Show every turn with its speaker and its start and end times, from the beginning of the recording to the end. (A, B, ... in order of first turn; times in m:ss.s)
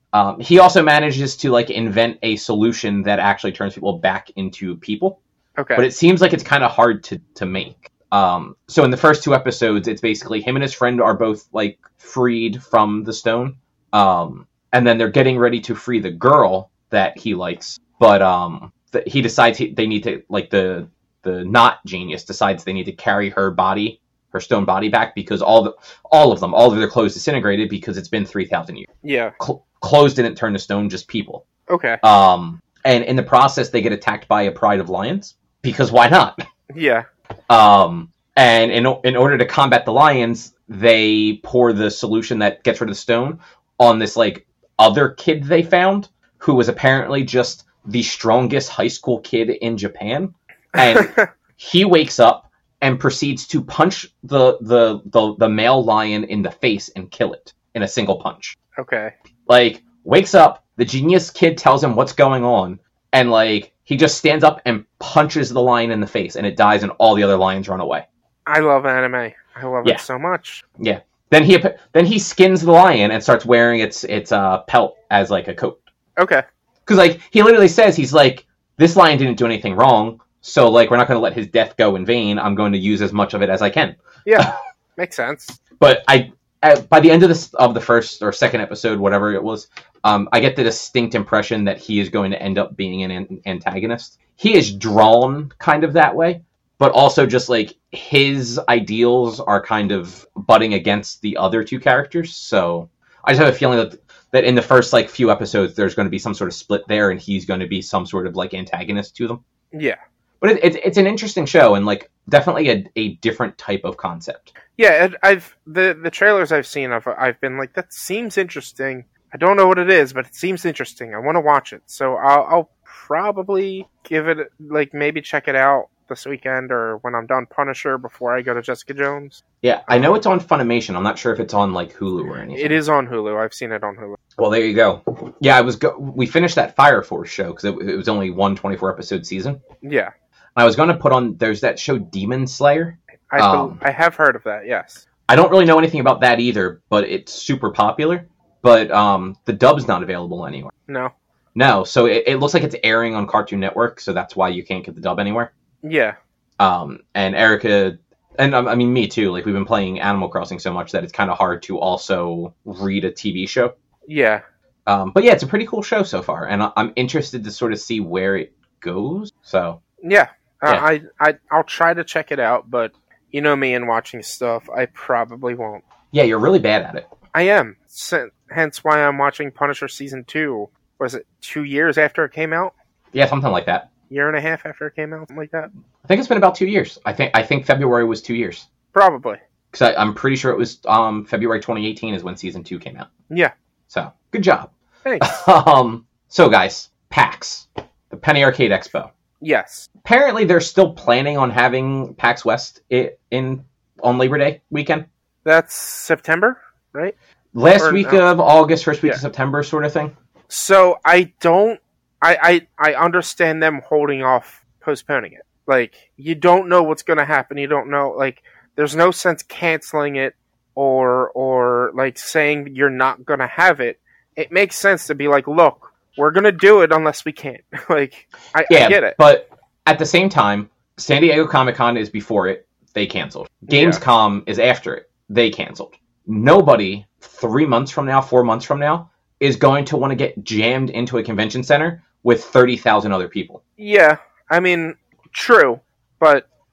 0:00.1-0:05.2 A
0:05.6-0:05.8 B
0:05.8-0:28.9 A
0:29.0-0:29.3 B
0:29.4-0:31.4 A
0:31.7-0:32.0 B
0:32.0-0:36.4 A
0:36.7-0:37.1 B
0:37.5-0:58.6 A
0:50.8-0:51.3 B
0:58.8-0:59.1 B
0:59.5-1:08.0 A
1:08.5-1:10.6 B
1:10.8-1:15.8 A
1:16.2-1:16.4 B
1:16.8-1:24.5 A
1:24.2-1:25.6 B
1:25.8-1:49.4 A
1:49.7-1:50.0 B
1:50.4-1:54.5 A
1:54.8-2:10.2 B
2:09.6-2:12.8 A
2:12.5-2:14.2 B
2:14.4-2:19.6 A
2:19.8-2:20.1 B
2:20.6-2:23.8 A
2:23.3-2:25.0 B
2:25.3-2:30.7 A
2:30.9-2:31.1 B
2:31.5-2:35.5 A
2:35.8-2:36.2 B
2:36.6-2:43.7 A
2:44.1-2:44.4 B
2:44.9-2:49.8 A
2:50.0-2:55.8 B
2:56.1-2:57.1 A
2:57.3-3:02.7 B
3:03.1-3:03.9 A
3:04.1-3:05.7 B
3:06.0-3:08.6 A
3:08.9-3:09.4 B
3:09.7-3:13.1 A
3:13.9-3:19.1 A
3:15.0-3:15.4 B
3:19.4-3:19.9 B
3:20.0-3:25.1 A
3:25.4-3:27.1 B
3:27.5-3:30.1 A
3:27.8-3:28.2 B
3:30.5-3:49.2 B
3:48.7-4:03.6 A
3:53.7-3:54.0 B
4:03.8-4:06.4 B